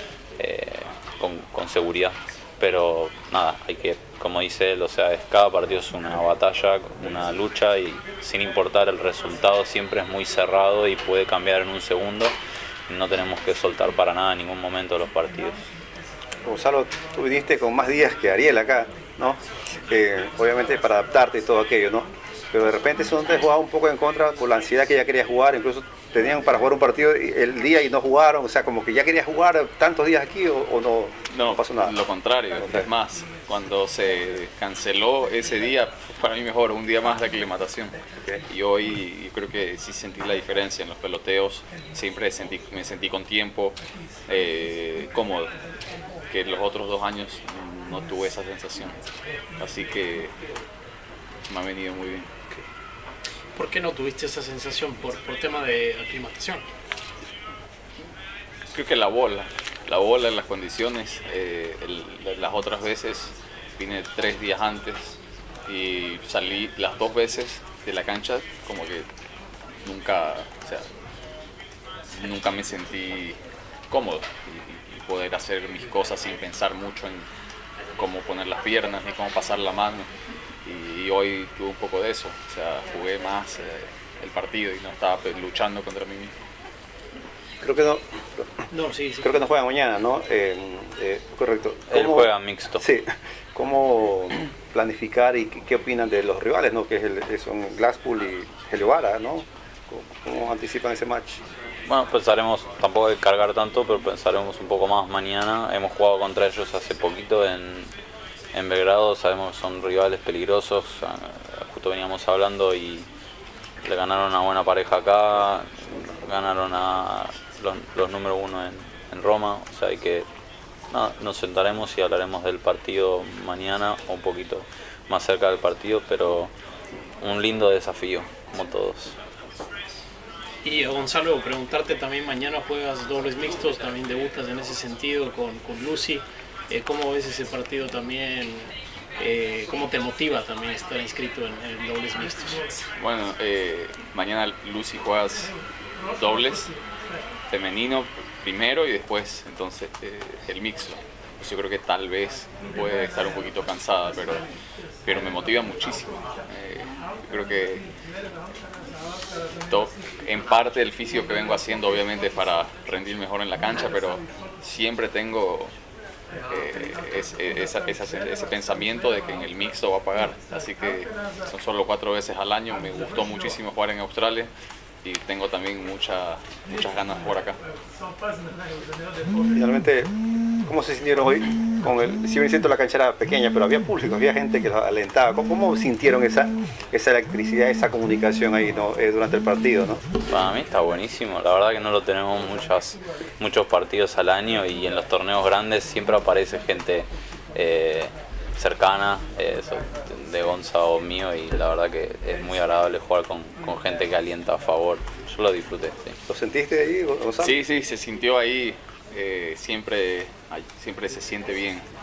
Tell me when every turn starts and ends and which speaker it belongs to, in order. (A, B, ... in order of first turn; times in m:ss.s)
0:00.4-0:12.3 A
0:12.9-0:15.6 A
0:16.4-0:31.9 B
0:31.3-0:38.0 C
0:38.5-0:45.5 C
0:46.3-0:49.0 C
0:49.6-0:50.3 C
0:51.5-0:52.3 C
0:53.6-0:56.6 D
0:58.7-1:05.2 C
1:05.7-1:09.1 C
1:09.8-1:10.8 C
1:12.1-1:13.4 C
1:13.9-1:17.2 C
1:18.0-1:20.1 C
1:20.6-1:26.3 C
1:27.6-1:28.6 B
1:28.7-1:29.3 D
1:29.2-1:41.4 B
1:31.9-1:32.8 A
1:41.9-1:47.9 A
1:48.5-1:53.0 A
1:53.8-2:00.2 A
2:00.9-2:06.5 A
2:07.2-2:09.2 A
2:10.6-2:22.8 D
2:23.0-2:25.5 C
2:26.2-2:26.7 C
2:27.5-2:34.4 C
2:35.0-2:37.8 C
2:39.7-2:45.7 C
2:46.5-2:54.5 C
2:55.0-2:57.6 C
2:59.5-3:00.1 B
3:00.7-3:10.0 B
3:10.3-3:26.2 A
3:26.3-3:27.6 B
3:27.4-3:31.8 C